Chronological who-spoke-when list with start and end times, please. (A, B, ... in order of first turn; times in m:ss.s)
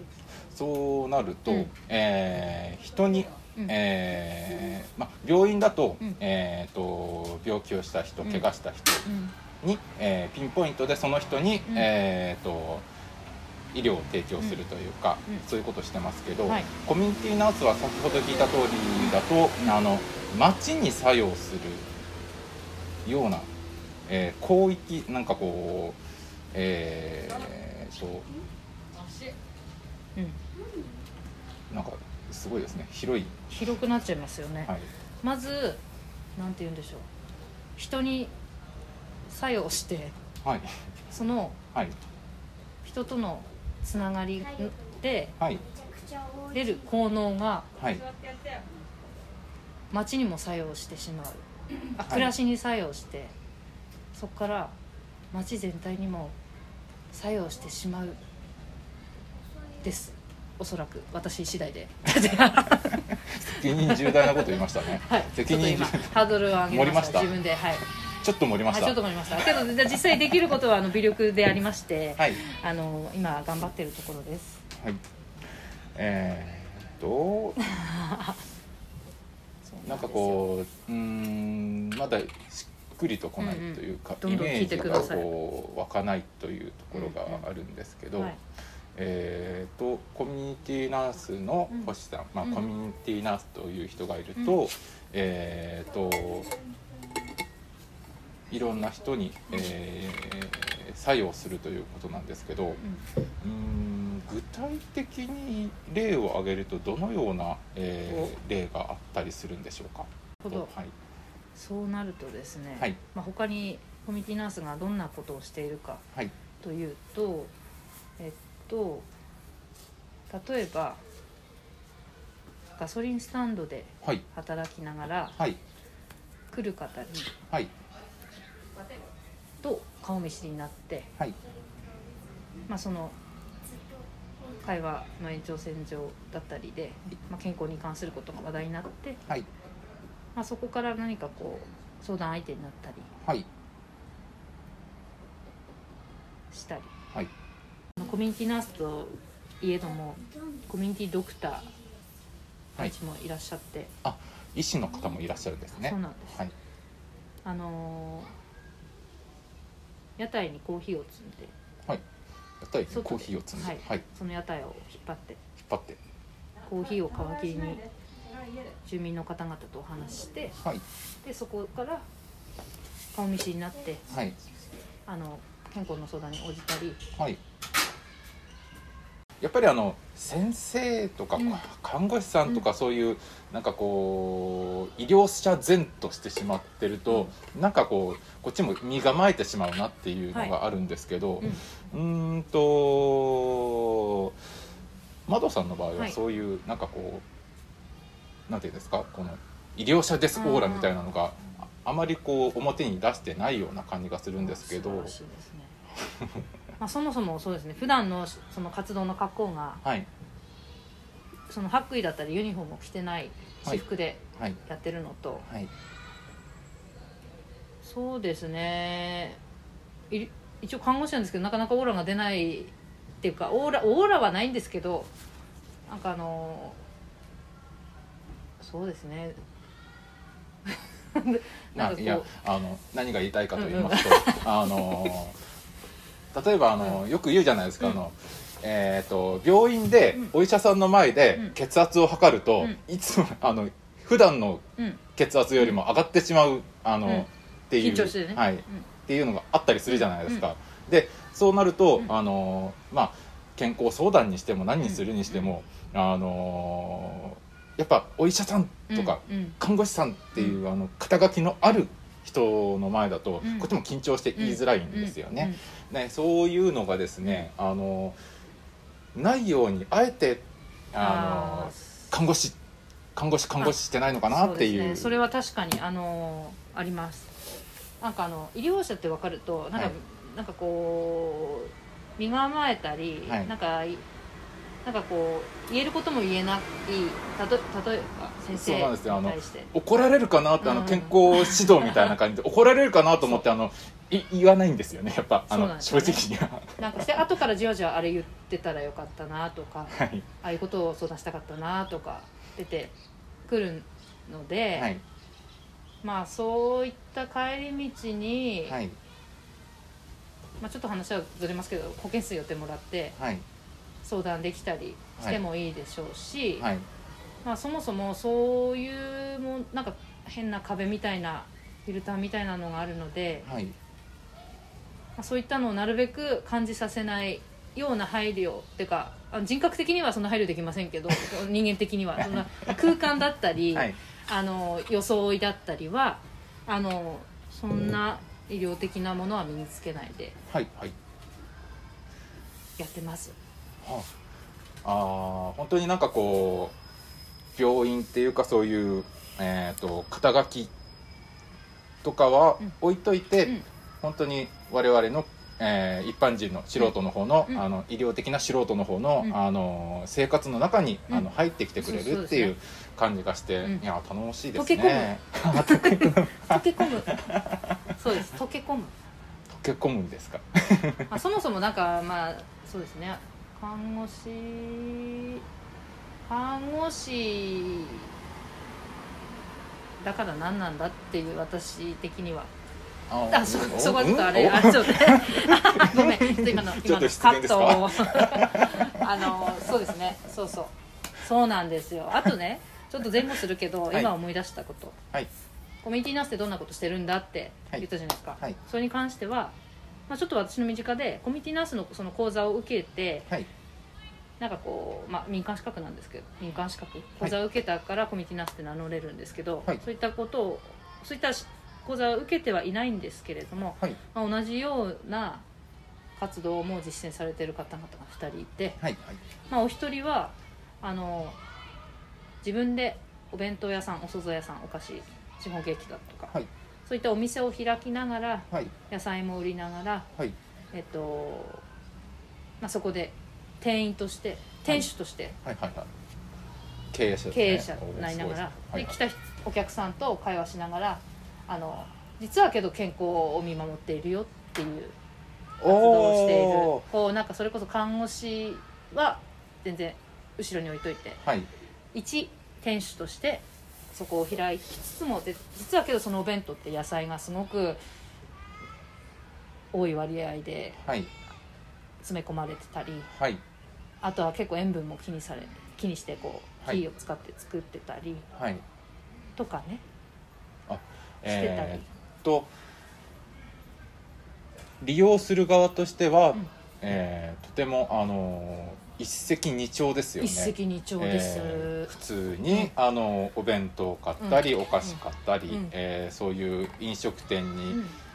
0:00.5-0:09.1 A
0:01.5-0:01.7 B
0:09.0-0:09.3 B
0:09.6-0:12.9 A
0:13.7-0:21.9 A
0:23.0-0:23.5 A
0:24.1-0:26.0 A
0:26.5-0:28.3 A
0:31.7-0:33.4 A
0:33.5-0:35.8 B
0:36.4-0:37.1 B
0:37.8-0:38.3 B
0:39.3-0:40.2 B
0:40.4-0:40.7 A
0:41.1-0:41.6 B
0:42.8-0:45.3 B
0:46.5-0:47.7 B
0:47.8-0:48.0 A
0:49.9-0:53.3 B
0:52.0-0:52.3 A
0:54.1-0:54.8 B
0:55.3-0:56.4 B
0:57.1-0:58.2 B
0:59.8-1:07.8 B
1:03.2-1:07.3 A
1:08.2-1:09.0 A
1:08.7-1:14.6 B
1:16.0-1:17.6 A
1:17.6-1:18.4 B
1:19.7-1:20.4 B
1:19.8-1:28.3 A
1:23.4-1:25.3 B
1:26.9-1:27.4 B
1:29.0-1:36.5 A
1:38.5-1:42.8 A
1:43.4-1:50.9 A
1:48.1-1:48.3 B
1:50.4-1:50.7 B
1:51.6-1:56.0 B
1:56.6-1:57.5 B
1:58.2-1:59.1 B
2:00.3-2:01.0 B
2:02.8-2:05.4 B
2:06.5-2:07.3 B
2:09.6-2:11.1 B
2:12.7-2:13.2 B
2:14.6-2:19.2 B
2:20.4-2:23.1 B
2:26.5-2:26.9 B
2:28.0-2:31.7 B
2:32.8-2:33.9 B
2:34.0-2:36.5 A
2:35.8-2:36.4 B
2:37.4-2:38.3 B
2:40.2-2:41.5 B
2:42.6-2:44.0 A
2:42.9-2:45.4 B
2:45.7-2:46.0 A
2:46.6-2:47.8 B
2:48.8-2:50.6 B
2:51.2-2:52.1 B
2:53.1-2:54.0 B
2:54.1-2:54.4 A
2:55.1-2:57.0 B
2:59.4-3:14.4 A
3:01.4-3:01.6 B
3:15.3-3:17.2 A
3:18.5-3:25.1 A
3:20.4-3:20.9 B
3:24.4-3:25.8 B
3:26.0-3:26.4 A
3:26.8-3:29.8 B
3:31.5-3:35.5 B
3:37.8-3:39.4 B
3:40.1-3:45.1 B
3:45.9-3:46.8 B
3:48.6-3:49.4 B
3:50.7-3:52.3 B
3:51.8-3:55.4 A
3:53.6-3:55.2 B
3:56.3-4:04.6 A
4:05.2-4:28.2 A
4:07.8-4:08.9 B
4:09.9-4:10.4 B
4:14.8-4:15.5 B
4:18.9-4:19.6 B
4:23.4-4:23.7 B
4:24.4-4:25.6 B
4:29.2-4:32.6 A
4:31.0-4:32.1 B
4:33.2-4:35.2 A
4:33.6-4:37.3 B
4:38.0-4:44.1 B
4:43.3-4:43.5 A
4:44.8-4:49.7 B
4:48.5-4:57.4 A
4:50.6-4:52.1 B
4:55.5-4:56.2 B
4:56.8-5:03.0 B
4:59.9-5:00.3 A
5:03.5-5:04.9 B
5:04.8-5:05.0 A
5:06.0-5:08.8 B
5:08.7-5:09.0 A
5:10.6-5:13.2 B
5:13.2-5:13.4 A
5:14.0-5:16.7 B
5:16.6-5:16.9 A
5:17.4-5:23.5 B
5:23.4-5:23.8 A
5:25.2-5:40.4 B
5:32.2-5:33.0 A
5:40.5-5:41.0 A
5:42.8-5:43.4 B
5:43.8-5:44.1 A
5:44.8-5:46.8 A
5:47.6-5:50.7 A
5:52.0-6:08.0 A
6:01.8-6:02.5 B
6:04.6-6:07.2 B
6:08.0-6:08.9 B
6:09.5-6:11.2 A
6:11.1-6:15.4 B
6:16.3-6:18.1 B
6:20.0-6:22.5 B
6:23.1-6:29.9 A
6:23.3-6:35.0 B
6:35.8-6:39.6 B
6:40.1-6:43.3 B
6:44.4-6:55.5 B
6:56.2-6:58.8 B
6:58.8-6:59.2 A
6:59.5-7:01.4 B
7:02.4-7:06.4 B
7:06.9-7:10.1 B
7:10.7-7:11.6 B
7:12.6-7:15.4 B
7:15.4-7:15.9 A
7:16.9-7:19.0 A
7:17.3-7:25.0 B
7:25.6-7:26.9 A
7:25.6-7:31.2 B
7:31.2-7:31.5 A
7:31.9-7:37.8 B
7:39.7-7:40.8 B
7:40.8-7:41.1 A
7:42.0-7:43.1 B
7:43.1-7:43.4 A
7:44.0-7:48.3 B
7:48.4-7:48.6 A
7:49.4-7:49.8 B
7:50.7-7:52.5 A
7:51.3-7:51.9 B
7:54.8-8:07.8 A
8:00.2-8:02.0 B
8:04.2-8:05.7 B